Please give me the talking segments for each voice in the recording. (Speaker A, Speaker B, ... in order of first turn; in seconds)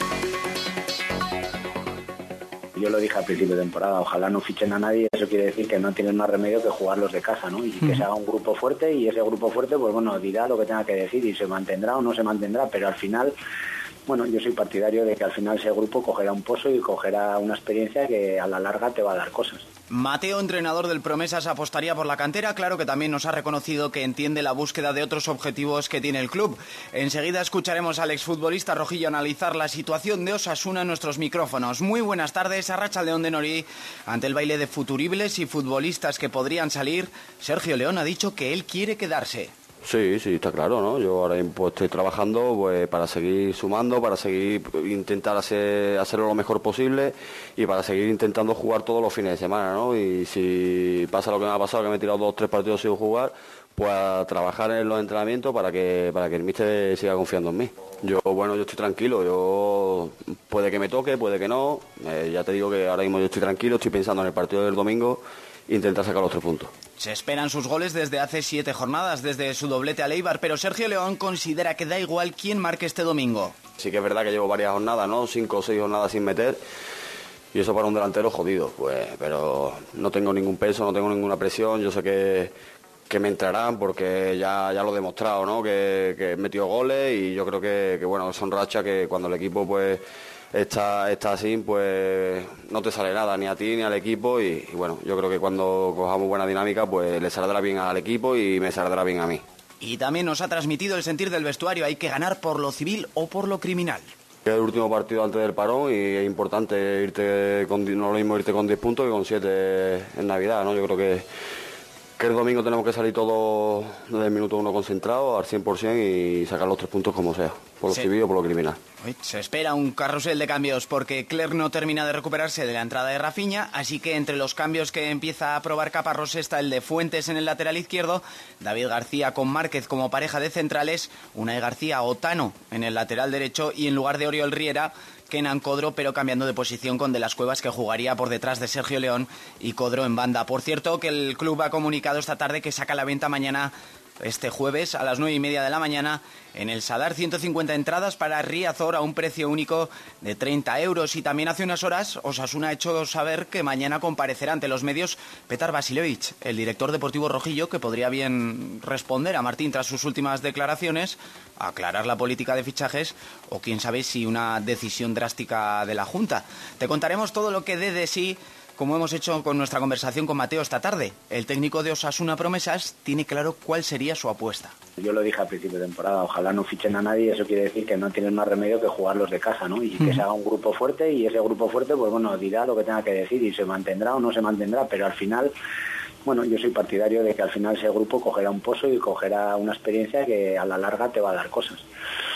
Speaker A: 2.8-13.3, 14.1-19.6, 175.0-185.5, 186.2-191.8
Speaker B: 19.9-39.5, 67.0-73.5, 99.8-104.1, 119.0-174.7
Speaker C: 39.8-66.7, 73.8-76.6, 77.5-82.5, 83.1-90.0, 90.5-99.4, 104.4-111.2, 112.2-118.8